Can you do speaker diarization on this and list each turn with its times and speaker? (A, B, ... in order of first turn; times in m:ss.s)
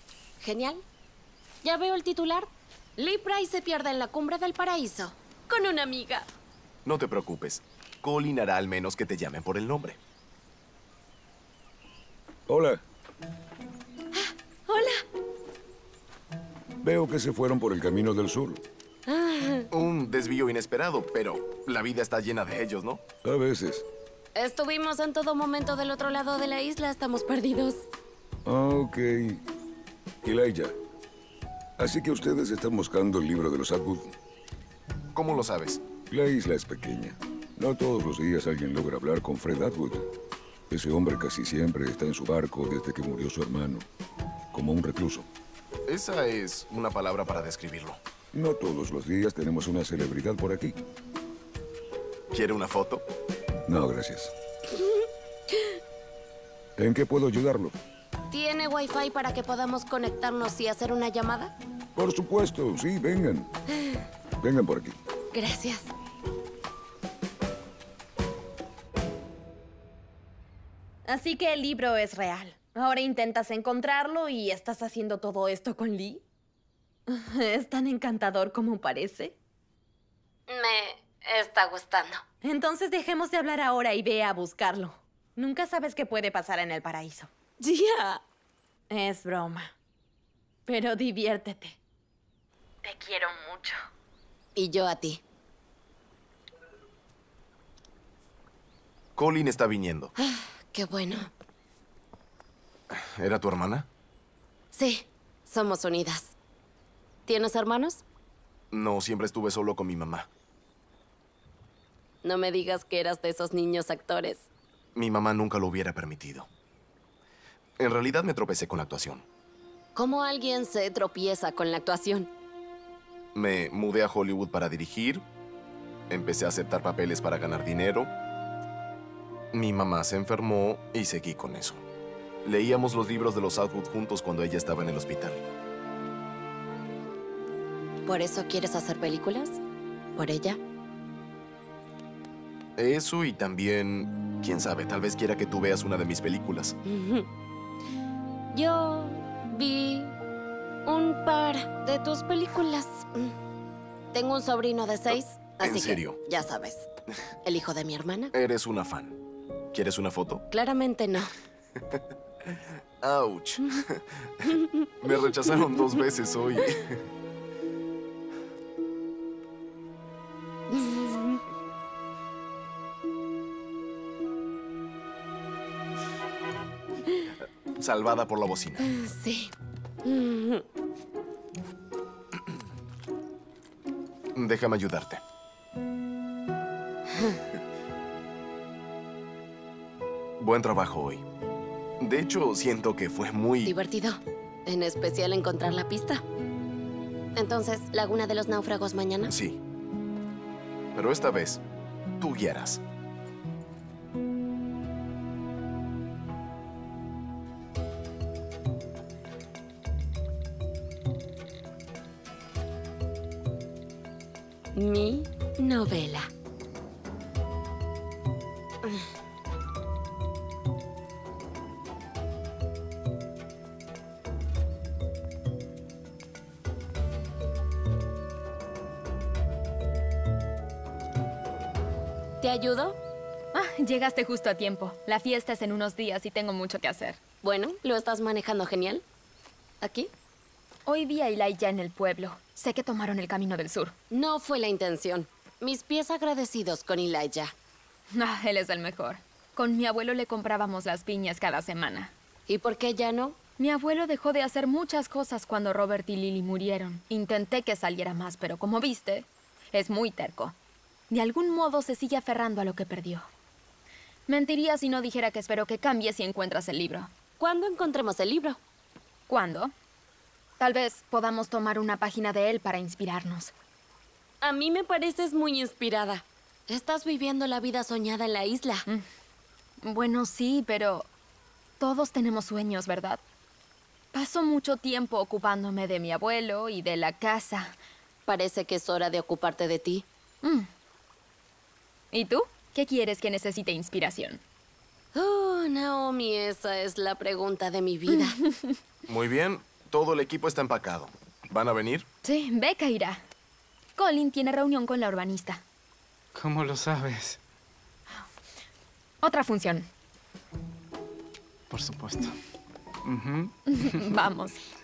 0:00.4-0:00.8 A
0:01.6-0:06.3 A
0:06.8-0:10.0 B
0:12.5-0:12.8 C
0:14.1-0:15.0 A
0:16.8-0:18.6 C
0:19.1-0:19.7 A
0:19.7-0:23.0 B
0:23.2-0:23.8 C
0:24.4-0:27.8 A
0:28.4-0:29.4 C
0:30.2-0:30.7 C
0:31.8-0:34.1 C
0:35.1-0:35.8 B
0:36.0-0:40.0 C
0:40.7-0:43.9 C
0:44.5-0:45.3 C
0:45.9-0:48.0 B
0:48.3-0:50.8 C
0:52.3-0:53.0 B
0:53.7-0:54.3 C
0:54.7-0:55.7 A
0:56.8-0:57.7 C
0:58.3-1:01.5 A
1:02.0-1:03.5 C
1:04.4-1:05.0 C
1:05.3-1:05.9 A
1:11.1-1:16.2 D
1:17.1-1:19.4 D
1:20.5-1:22.2 A
1:22.4-1:27.7 D
1:27.7-1:28.2 A
1:28.9-1:29.7 D
1:30.7-1:31.8 D
1:32.8-1:33.8 D
1:34.6-1:35.2 A
1:39.2-1:40.1 B
1:40.2-1:41.3 A
1:42.9-1:43.9 B
1:44.7-1:46.3 A
1:47.3-1:48.0 A
1:48.7-1:50.3 B
1:52.2-1:54.5 A
1:55.0-1:56.5 B
1:57.8-1:59.2 B
2:00.0-2:02.3 A
2:03.4-2:05.2 B
2:06.1-2:08.1 B
2:09.5-2:11.8 B
2:12.4-2:15.4 B
2:18.1-2:19.6 A
2:20.2-2:20.6 A
2:22.8-2:26.8 B
2:26.8-2:27.3 A
2:28.5-2:30.1 A
2:30.9-2:33.3 A
2:34.1-2:36.9 A
2:35.6-2:36.2 B
2:37.4-2:38.3 A
2:38.3-2:39.2 B
2:39.7-2:40.4 B
2:40.5-2:41.3 A
2:43.0-2:44.0 B
2:44.5-2:44.9 A
2:45.0-2:47.0 B
2:50.7-2:51.4 A
2:57.8-2:58.9 B
2:58.9-2:59.5 A
3:00.0-3:00.6 A
3:04.4-3:05.2 B
3:07.1-3:07.4 A
3:10.4-3:11.2 B
3:12.0-3:13.7 B
3:13.6-3:16.2 A
3:17.4-3:19.3 A
3:19.3-3:19.6 B
3:21.0-3:21.6 B
3:22.2-3:22.8 B
3:34.8-3:36.3 A
3:52.4-3:53.0 A
3:53.5-3:57.2 E
3:57.4-3:59.0 A
3:59.8-4:00.1 A
4:00.9-4:04.0 E
4:04.1-4:07.5 A
4:08.1-4:12.1 E
4:12.5-4:13.4 A
4:13.6-4:20.6 E
4:21.1-4:23.3 E
4:24.3-4:27.1 E
4:27.4-4:28.6 A
4:29.3-4:29.7 E
4:30.6-4:33.5 E
4:34.4-4:38.9 A
4:39.8-4:41.1 E
4:41.8-4:43.2 E
4:44.1-4:47.8 E
4:48.3-4:50.0 A
4:50.4-4:50.7 E
4:52.1-4:54.4 E
4:55.1-4:58.4 A
4:59.1-5:02.1 B
5:02.2-5:03.2 E
5:04.0-5:05.6 E
5:06.4-5:07.4 F
5:09.2-5:09.9 E
5:11.7-5:12.4 F
5:13.0-5:14.2 F
5:13.7-5:14.6 E